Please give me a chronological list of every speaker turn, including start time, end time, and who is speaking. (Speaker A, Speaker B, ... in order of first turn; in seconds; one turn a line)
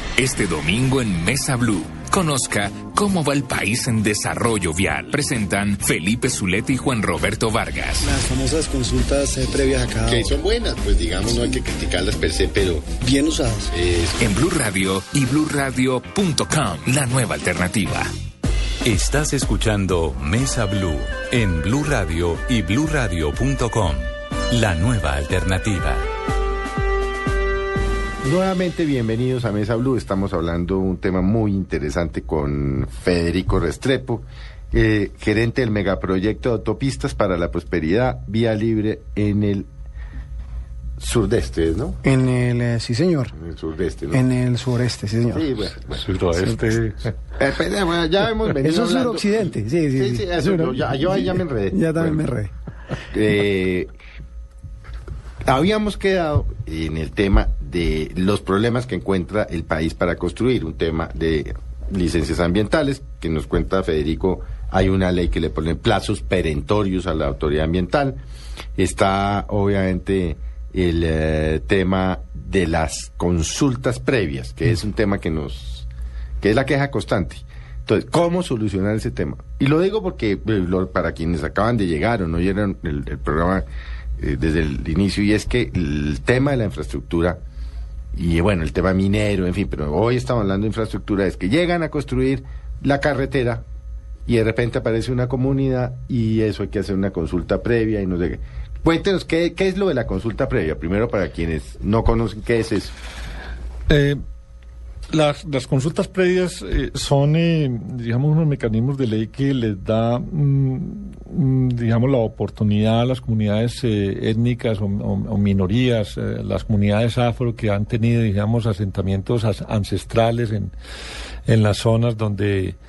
Speaker A: 0.2-8.1
Speaker B: 8.0-10.3
Speaker C: 10.1-12.9
Speaker B: 13.0-13.7
Speaker C: 13.7-14.3
Speaker A: 14.2-18.1
Speaker D: 18.8-26.0
Speaker C: 28.2-39.7
Speaker C: 41.0-42.0
Speaker B: 42.0-43.4
Speaker C: 43.4-44.2
Speaker B: 44.1-45.5
Speaker C: 45.3-46.7
Speaker E: 45.9-47.1
Speaker C: 47.3-52.2
Speaker B: 48.5-52.5
Speaker C: 53.1-53.9
Speaker C: 55.5-68.2
Speaker C: 68.8-75.9
Speaker C: 76.4-83.7
Speaker C: 84.2-87.4
Speaker C: 88.1-93.6
Speaker C: 94.3-102.9
Speaker E: 103.9-104.2
Speaker E: 105.1-120.7
Speaker E: 121.5-122.8